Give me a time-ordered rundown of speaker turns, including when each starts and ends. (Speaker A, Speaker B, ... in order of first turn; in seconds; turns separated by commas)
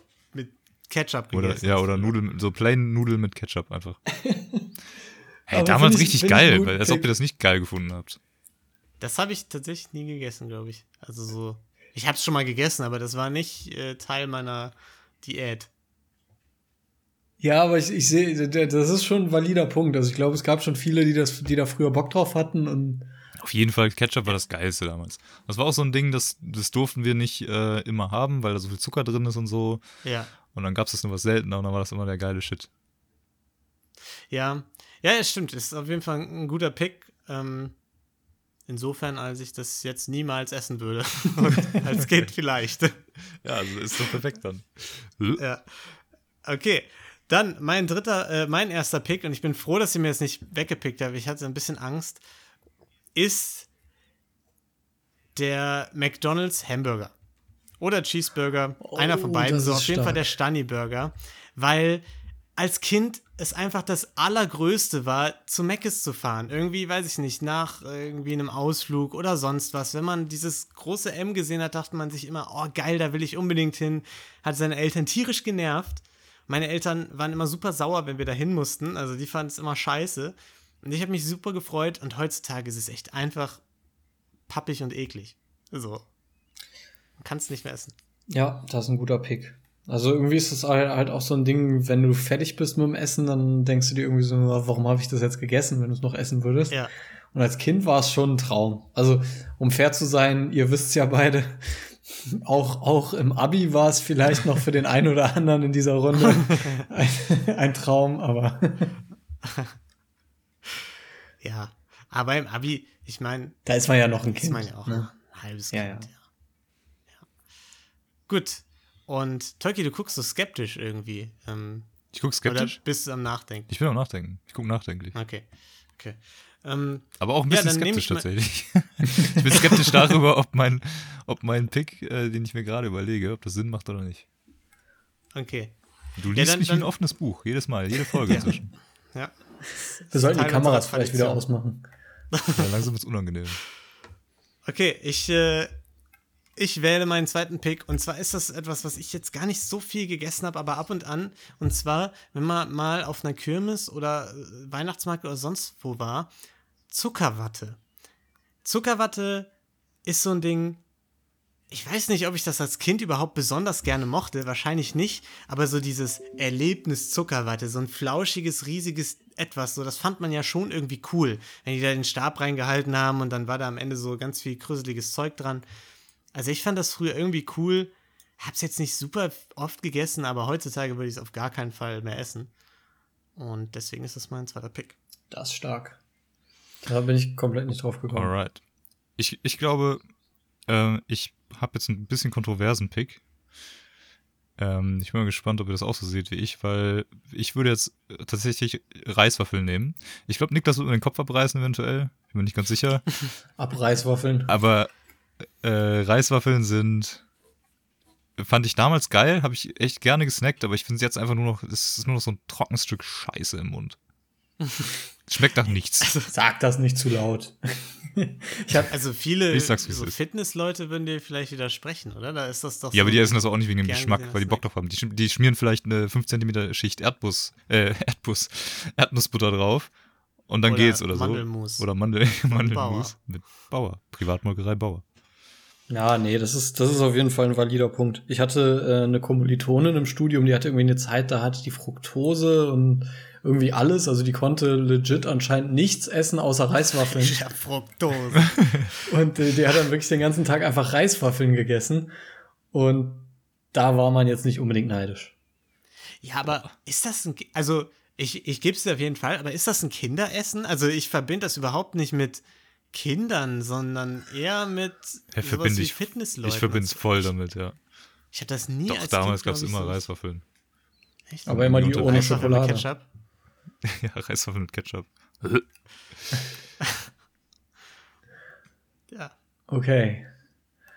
Speaker A: 0.3-2.1, Speaker B: 1.3-4.1, Speaker C: 4.2-4.7, Speaker B: 5.5-8.2, Speaker C: 5.5-7.1, Speaker A: 9.0-15.7, Speaker C: 17.4-23.1, Speaker B: 23.4-29.9, Speaker A: 30.0-30.3, Speaker B: 30.4-32.7, Speaker A: 34.3-37.8, Speaker A: 38.7-43.0, Speaker B: 43.4-45.4, Speaker A: 45.4-52.2, Speaker A: 53.1-53.7, Speaker A: 55.4-57.1, Speaker A: 57.8-62.0, Speaker C: 58.8-60.3, Speaker A: 62.6-83.6, Speaker A: 84.5-86.1, Speaker A: 87.2-88.0, Speaker C: 88.3-109.0, Speaker A: 106.2-106.8, Speaker A: 109.5-109.7, Speaker A: 111.4-113.6, Speaker C: 113.7-115.2, Speaker A: 114.3-116.2, Speaker C: 115.7-116.1, Speaker A: 118.3-123.7, Speaker B: 122.1-122.8, Speaker B: 123.7-125.2, Speaker A: 125.1-128.3, Speaker B: 127.2-134.2, Speaker A: 135.3-136.9, Speaker B: 136.2-138.7, Speaker A: 138.3-141.4, Speaker C: 140.1-141.8, Speaker A: 142.3-142.7, Speaker B: 142.5-143.6, Speaker A: 144.7-145.7, Speaker A: 146.6-156.3, Speaker A: 156.9-157.8, Speaker A: 158.6-159.5, Speaker A: 160.1-160.8, Speaker A: 161.7-175.7, Speaker A: 176.3-182.5, Speaker A: 183.4-185.0, Speaker C: 185.3-186.0, Speaker C: 186.8-188.3, Speaker B: 188.1-188.6, Speaker B: 189.2-190.0, Speaker B: 190.7-193.2, Speaker B: 194.6-203.1, Speaker C: 203.6-204.5, Speaker B: 204.5-204.9, Speaker B: 205.6-207.2, Speaker B: 208.4-214.0, Speaker A: 214.6-214.9, Speaker B: 215.3-216.1, Speaker A: 215.7-216.3, Speaker C: 216.3-218.9, Speaker A: 218.9-224.6, Speaker B: 219.5-220.2, Speaker B: 222.9-229.9, Speaker B: 230.5-235.0, Speaker A: 230.7-231.9, Speaker A: 232.5-233.1, Speaker C: 235.9-247.4, Speaker A: 247.1-248.6, Speaker C: 249.1-252.1, Speaker C: 252.7-255.3, Speaker A: 256.2-267.3, Speaker B: 265.3-267.8, Speaker A: 268.3-270.0, Speaker B: 268.9-270.4, Speaker A: 271.3-273.0, Speaker B: 271.4-272.6, Speaker C: 271.5-272.9, Speaker B: 273.9-275.7, Speaker C: 279.7-280.3